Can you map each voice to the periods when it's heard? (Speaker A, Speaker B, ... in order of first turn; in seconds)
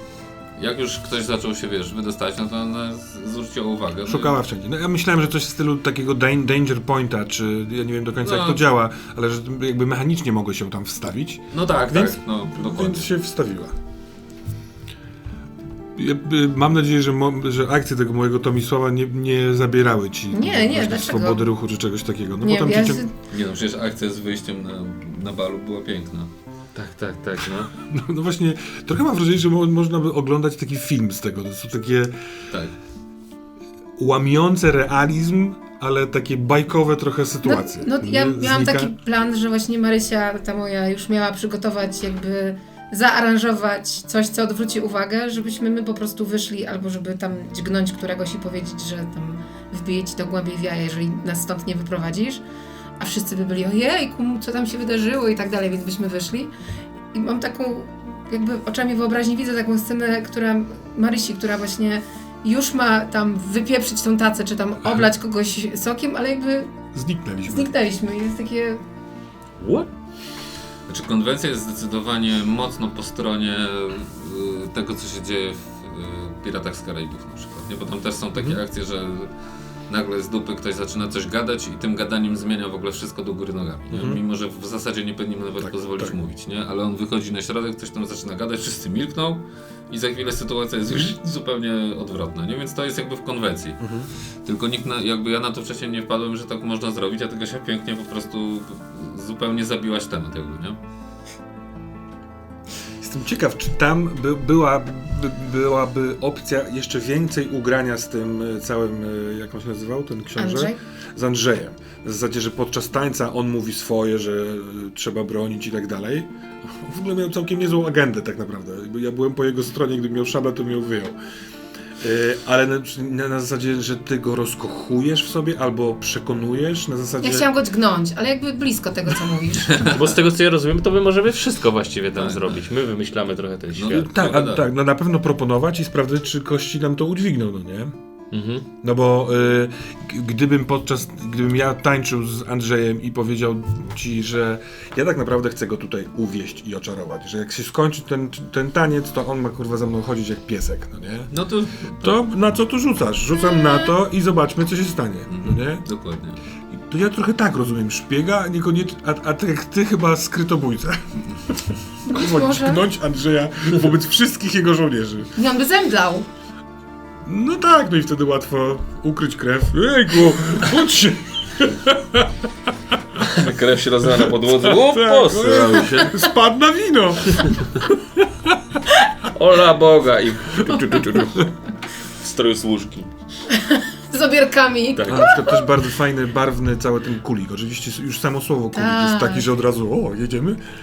Speaker A: 0.6-4.3, 8.2-8.6, 11.5-13.1, 23.3-26.3, 70.9-79.3, 79.9-93.8, 94.4-100.8, 132.1-132.7, 133.7-134.7, 151.3-152.1, 155.3-156.4
Speaker B: 4.0-13.7, 15.9-23.0, 27.8-32.1, 34.0-38.9, 66.9-67.7, 78.3-78.6, 83.9-84.2, 85.6-86.2, 93.8-94.1, 103.0-121.2, 122.0-127.5, 133.9-137.9, 138.8-151.3, 152.0-155.8, 156.7-165.3, 167.2-173.2, 174.2-178.6, 185.1-190.6
Speaker C: 20.3-21.4, 22.4-23.1, 37.4-52.4, 53.0-56.5, 57.1-66.7, 67.5-68.8, 110.4-110.8, 127.2-129.9, 153.6-153.9, 162.1-162.8, 165.3-166.3, 175.7-176.1, 180.7-181.0, 183.5-185.6, 188.7-189.5
Speaker D: 26.7-27.7, 69.6-69.9, 129.8-134.1, 138.3-138.7, 173.2-176.0, 179.2-183.1, 184.9-185.3